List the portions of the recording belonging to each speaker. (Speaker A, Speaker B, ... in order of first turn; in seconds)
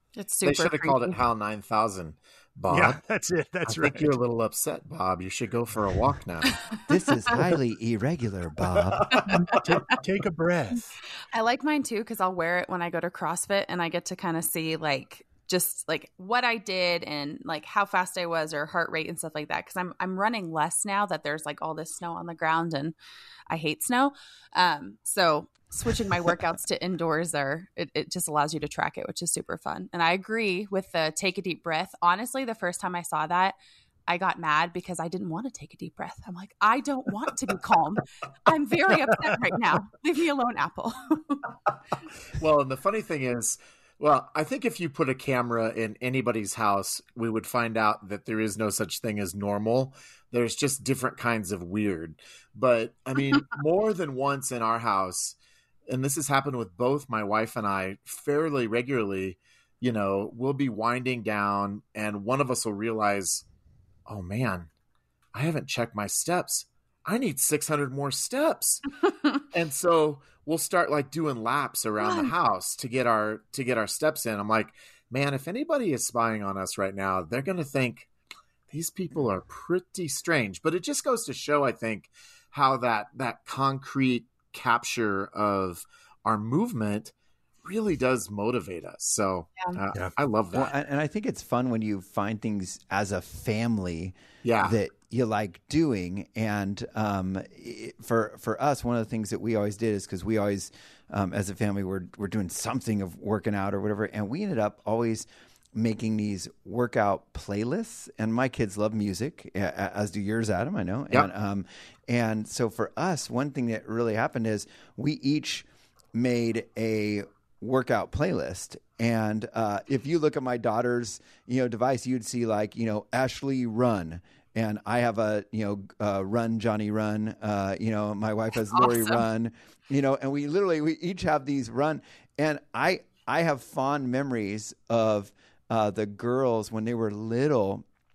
Speaker A: 0.1-1.2, 9.3-9.6, 11.3-22.9, 23.5-41.5, 72.0-72.3, 128.7-129.2
Speaker B: 0.4-3.0, 3.6-6.6, 8.9-9.6, 42.4-55.4, 55.9-63.4, 64.1-64.7, 65.3-68.8, 69.5-78.1, 78.7-90.7, 94.4-94.8
Speaker C: 2.7-4.2, 9.5-10.9
Speaker D: 6.9-9.2, 90.5-137.8